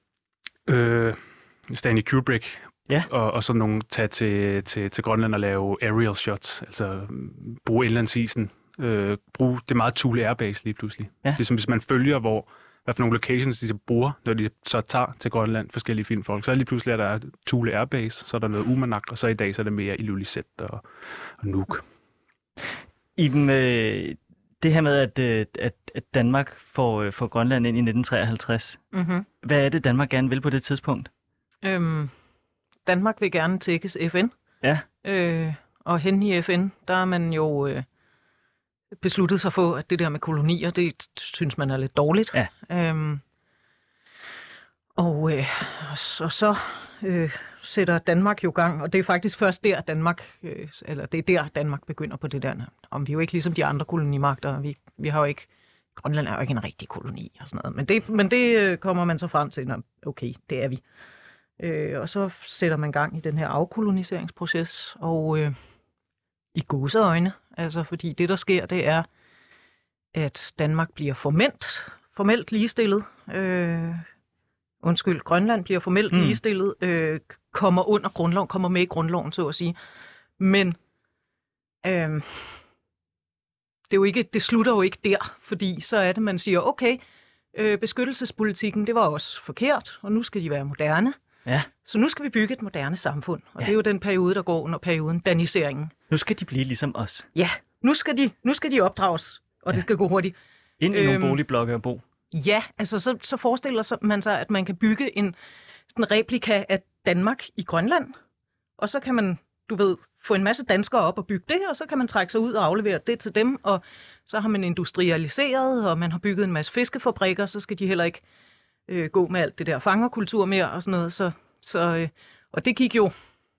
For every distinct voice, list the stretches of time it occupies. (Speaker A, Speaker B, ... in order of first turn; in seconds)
Speaker A: 0.7-21.8
Speaker B: 23.2-28.8, 29.4-31.1, 76.1-76.4, 96.1-97.3, 100.8-102.0
Speaker C: 28.9-29.3, 31.6-32.1, 32.9-34.3, 35.0-37.9, 39.0-43.2, 45.0-60.8, 61.6-65.6, 66.5-69.1, 70.1-74.1, 74.8-79.8, 80.4-80.8, 81.8-82.6, 83.9-87.0, 87.5-91.2, 91.8-95.9, 97.3-100.3, 100.9-101.4, 102.3-105.4, 105.9-108.1, 108.8-118.2, 118.9-123.1